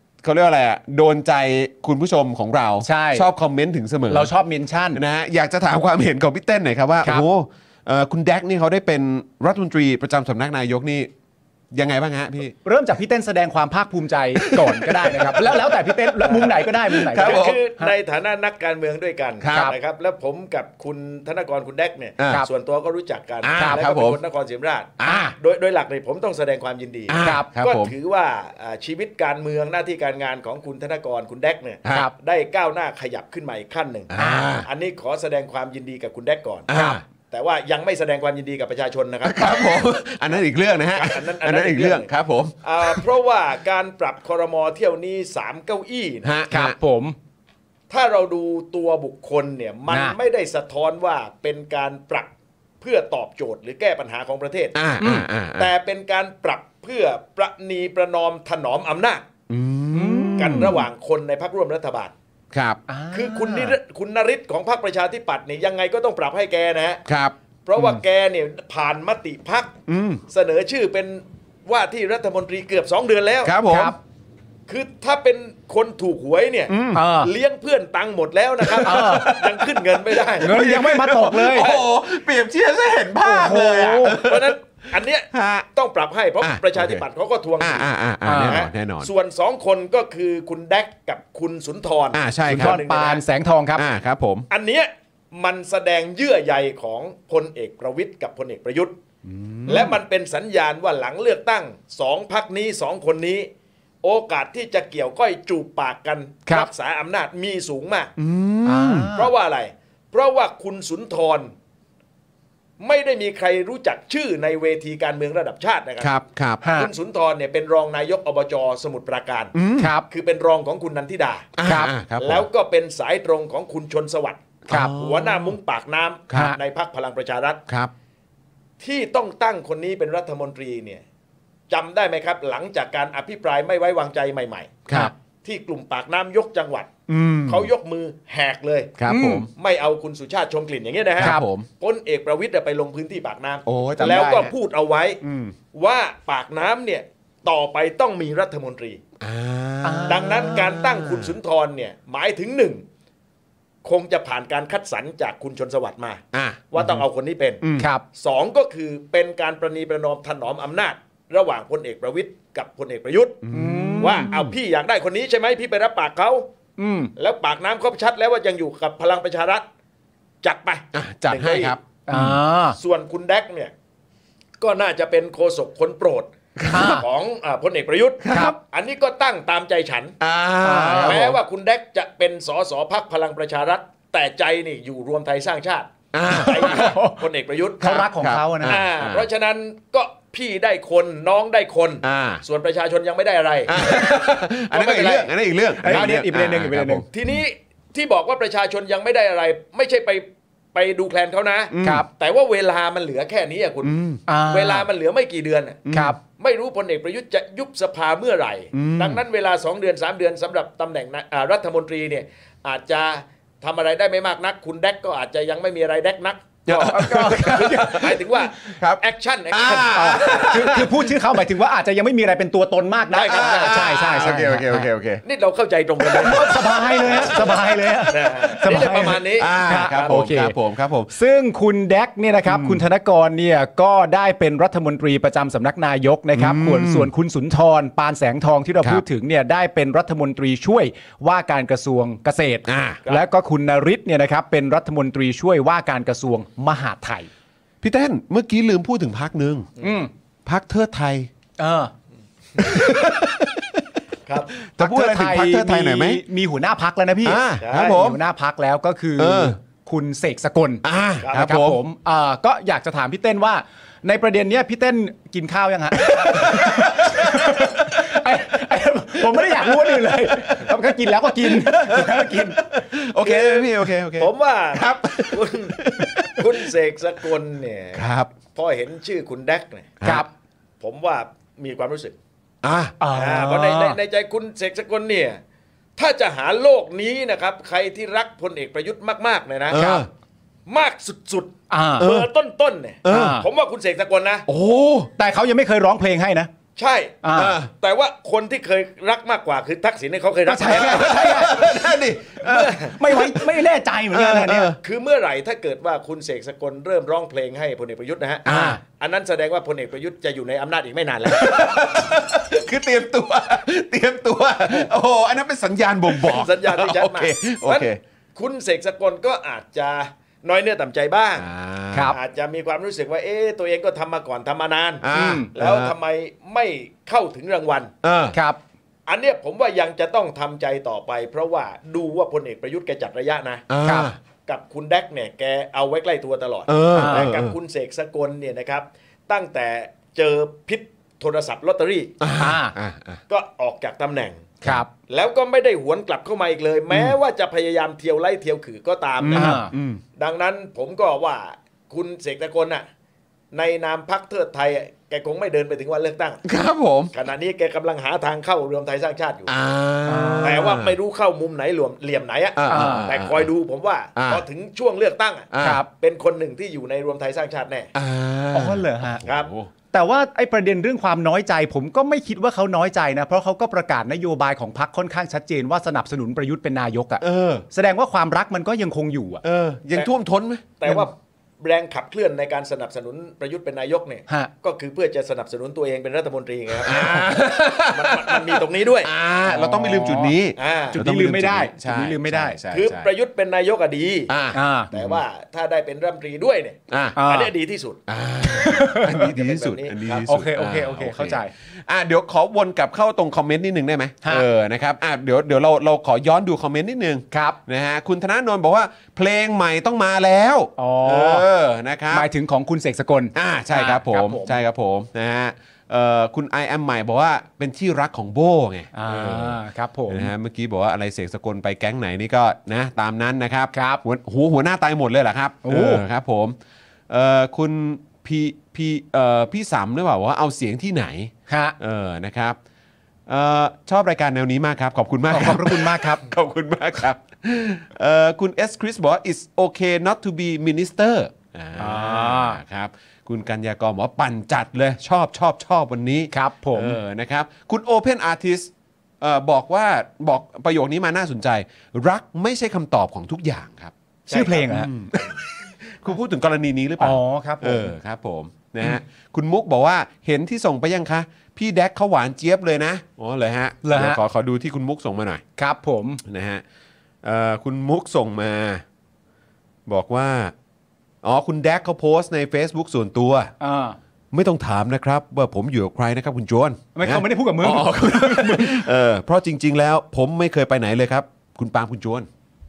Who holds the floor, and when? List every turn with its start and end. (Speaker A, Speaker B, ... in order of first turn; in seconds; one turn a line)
Speaker A: 0.2-4.3
Speaker B: 2.8-3.3
Speaker B: 4.1-5.0
Speaker A: 4.9-11.1
Speaker A: 11.7-12.5
Speaker B: 12.6-17.9
Speaker A: 14.4-17.6
Speaker C: 16.2-16.6
Speaker C: 17.1-36.7
Speaker A: 19.4-19.7
Speaker A: 22.2-22.4
Speaker A: 23.4-24.2
Speaker B: 23.6-23.8
Speaker A: 25.0-25.3
Speaker B: 25.0-25.3
Speaker A: 27.1-27.9
Speaker B: 27.2-27.5
Speaker A: 34.1-34.7
Speaker B: 34.2-34.5
Speaker A: 36.7-37.0
Speaker B: 36.7-37.0
Speaker C: 37.3-39.9
Speaker A: 39.2-43.0
Speaker C: 40.9-42.1
Speaker C: 42.6-46.3
Speaker A: 46.2-46.8
Speaker B: 46.5-47.2
Speaker C: 47.9-52.3
Speaker B: 49.9-50.2
Speaker C: 52.8-54.8
Speaker A: 54.7-55.7
Speaker B: 55.0-55.3
Speaker C: 55.6-59.3
Speaker A: 59.5-60.8
Speaker B: 59.9-60.8
Speaker C: 60.4-62.1
Speaker A: 62.5-62.8
Speaker B: 62.9-63.8
Speaker C: 63.1-67.0
Speaker A: 67.1-68.0
Speaker C: 67.7-69.8
Speaker A: 69.9-70.2
Speaker C: 70.3-73.6
Speaker A: 73.4-74.0
Speaker B: 73.7-74.0
Speaker C: 74.7-80.5
Speaker A: 76.7-77.0
Speaker B: 76.9-77.3
Speaker A: 78.6-84.5
Speaker B: 78.8-79.3
Speaker B: 80.4-81.7
Speaker C: 81.5-81.8
Speaker B: 83.2-84.2
Speaker C: 84.0-93.2
Speaker A: 85.3-85.7
Speaker A: 86.4-87.0
Speaker A: 87.6-89.1
Speaker B: 88.2-88.6
Speaker A: 92.1-92.8
Speaker B: 92.5-93.8
Speaker A: 93.8-94.5
Speaker C: 94.5-99.0
Speaker B: 99.4-99.9
Speaker C: 99.7-103.5
Speaker C: 104.0-108.1
Speaker A: 108.2-109.1
Speaker B: 108.7-109.3
Speaker C: 109.1-111.5
Speaker C: 112.8-116.1
Speaker A: 116.0-116.6
Speaker B: 116.6-116.9
Speaker C: 116.6-119.5
Speaker A: 119.5-119.9
Speaker B: 119.8-120.0
Speaker C: 120.1-121.5
Speaker A: 121.6-122.5
Speaker B: 121.7-121.9
Speaker C: 122.2-127.6
Speaker A: 124.7-125.5
Speaker B: 124.7-125.0
Speaker C: 128.8-131.0
Speaker C: 131.7-134.8
Speaker A: 134.9-135.1
Speaker C: 135.4-136.9
Speaker A: 137.1-137.7
Speaker C: 137.5-138.9
Speaker A: 139.0-139.5
Speaker B: 139.1-139.5
Speaker C: 139.5-145.2
Speaker A: 141.2-141.7
Speaker B: 141.2-141.4
Speaker A: 143.7-144.5
Speaker A: 145.2-145.6
Speaker C: 145.7-149.0
Speaker A: 149.2-151.3
Speaker B: 149.8-150.7
Speaker C: 150.1-152.8
Speaker C: 153.8-157.6
Speaker A: 156.3-157.0
Speaker A: 157.6-157.9
Speaker B: 157.8-158.0
Speaker C: 158.2-163.4
Speaker A: 163.4-164.5
Speaker B: 163.5-164.3
Speaker C: 164.0-166.5
Speaker B: 166.8-167.1
Speaker C: 167.2-169.7
Speaker C: 170.4-171.8
Speaker A: 170.9-172.4
Speaker B: 172.1-172.8
Speaker C: 172.8-173.7
Speaker C: 174.6-180.2
Speaker A: 176.6-177.0
Speaker B: 176.7-177.1
Speaker A: 178.2-178.6
Speaker B: 178.3-178.6
Speaker A: 180.2-181.3
Speaker B: 180.6-181.4
Speaker C: 181.0-188.1
Speaker A: 186.1-187.0
Speaker B: 186.3-187.2
Speaker B: 187.8-188.8
Speaker A: 187.8-189.3
Speaker C: 188.6-195.3
Speaker A: 192.0-192.4
Speaker A: 193.7-197.1
Speaker B: 195.8-197.1
Speaker C: 195.8-196.2
Speaker C: 197.1-220.7
Speaker A: 201.7-202.1
Speaker B: 201.8-202.1
Speaker A: 203.8-204.2
Speaker B: 204.3-204.9
Speaker A: 205.9-206.2
Speaker B: 205.9-206.2
Speaker A: 208.7-209.2
Speaker A: 216.7-221.2
Speaker B: 216.9-218.1
Speaker B: 219.9-224.9
Speaker C: 223.1-224.2
Speaker A: 223.2-225.2
Speaker C: 225.2-230.2
Speaker A: 226.0-227.5
Speaker B: 226.2-230.6
Speaker A: 229.4-231.1
Speaker B: 231.1-247.3
Speaker A: 232.5-232.8
Speaker A: 236.3-237.1
Speaker A: 242.7-243.0
Speaker A: 247.8-249.7
Speaker B: 249.8-250.1
Speaker A: 250.5-251.3
Speaker B: 251.6-251.9
Speaker A: 252.6-253.6
Speaker C: 254.3-254.5
Speaker A: 254.6-256.2
Speaker B: 254.8-260.8
Speaker A: 257.2-258.2
Speaker C: 257.6-258.0
Speaker A: 259.2-259.6
Speaker A: 260.8-261.8
Speaker C: 261.2-261.5
Speaker B: 261.4-272.6
Speaker A: 266.0-267.9
Speaker A: 269.5-276.5
Speaker C: 273.2-275.8
Speaker C: 276.4-279.9
Speaker A: 277.9-278.3
Speaker A: 280.0-280.3
Speaker B: 280.0-280.3
Speaker C: 280.8-282.2
Speaker A: 282.6-282.9
Speaker B: 283.0-284.0
Speaker C: 283.1-285.4
Speaker C: 286.0-290.1
Speaker A: 289.7-290.1
Speaker C: 290.7-294.5
Speaker B: 291.7-292.1
Speaker A: 292.0-292.3
Speaker A: 293.0-293.4
Speaker B: 293.1-293.5
Speaker A: 294.5-295.1
Speaker B: 295.2-296.5
Speaker C: 296.8-301.7
Speaker B: 297.2-297.6
Speaker A: 297.3-297.7
Speaker B: 300.5-304.7
Speaker A: 300.6-304.8
Speaker C: 302.4-303.0
Speaker C: 304.8-311.9
Speaker A: 308.5-308.8
Speaker B: 308.5-308.8
Speaker A: 311.3-318.0
Speaker C: 316.1-321.5
Speaker A: 321.4-322.1
Speaker B: 321.9-322.2
Speaker C: 322.1-327.9
Speaker A: 325.0-325.9
Speaker B: 325.1-325.5
Speaker A: 328.0-328.4
Speaker B: 328.3-328.6
Speaker C: 329.1-333.7
Speaker A: 333.7-334.2
Speaker B: 333.8-334.1
Speaker C: 334.5-342.1
Speaker A: 336.7-337.6
Speaker B: 337.0-337.3
Speaker A: 342.2-343.2
Speaker B: 342.4-342.8
Speaker C: 343.3-344.5
Speaker B: 344.6-344.9
Speaker C: 345.1-349.6
Speaker B: 349.3-349.7
Speaker A: 349.3-350.0
Speaker C: 350.2-352.9
Speaker C: 353.5-356.4
Speaker A: 356.4-357.1
Speaker C: 357.1-359.5
Speaker A: 359.5-360.9
Speaker B: 360.1-360.7
Speaker C: 360.4-367.9
Speaker A: 362.6-363.5
Speaker B: 362.7-363.1
Speaker A: 364.2-364.4
Speaker A: 365.5-365.8
Speaker B: 365.6-365.9
Speaker A: 367.9-369.7
Speaker B: 368.5-369.2
Speaker C: 369.2-369.5
Speaker B: 369.9-379.4
Speaker A: 377.2-377.7
Speaker A: 379.4-380.7
Speaker C: 380.8-387.3
Speaker A: 386.8-393.1
Speaker C: 387.9-389.1
Speaker B: 389.4-390.4
Speaker C: 390.6-391.0
Speaker B: 390.9-392.6
Speaker C: 392.7-394.3
Speaker A: 394.3-395.2
Speaker B: 394.5-394.9
Speaker C: 394.9-398.0
Speaker A: 396.9-397.2
Speaker B: 397.2-397.5
Speaker A: 398.1-412.3
Speaker B: 398.5-399.3
Speaker C: 399.0-400.3
Speaker B: 400.3-401.5
Speaker B: 407.3-407.6
Speaker B: 410.8-411.5
Speaker B: 412.1-414.6
Speaker A: 413.4-426.6
Speaker B: 418.9-420.3
Speaker B: 423.7-424.0
Speaker B: 425.6-426.0
Speaker A: 427.1-432.6
Speaker B: 431.5-431.8
Speaker A: 433.3-453.9
Speaker B: 435.3-436.2
Speaker B: 441.8-442.6
Speaker B: 446.3-447.0
Speaker C: 454.3-455.4
Speaker B: 454.3-454.9
Speaker A: 454.7-455.3
Speaker A: 455.9-465.4
Speaker B: 457.0-457.9
Speaker B: 463.8-464.2
Speaker B: 465.6-466.2
Speaker A: 466.2-466.6
Speaker A: 467.2-468.8
Speaker A: 469.9-470.5
Speaker A: 471.2-473.5
Speaker B: 473.6-474.0
Speaker A: 474.3-482.3
Speaker B: 476.9-478.9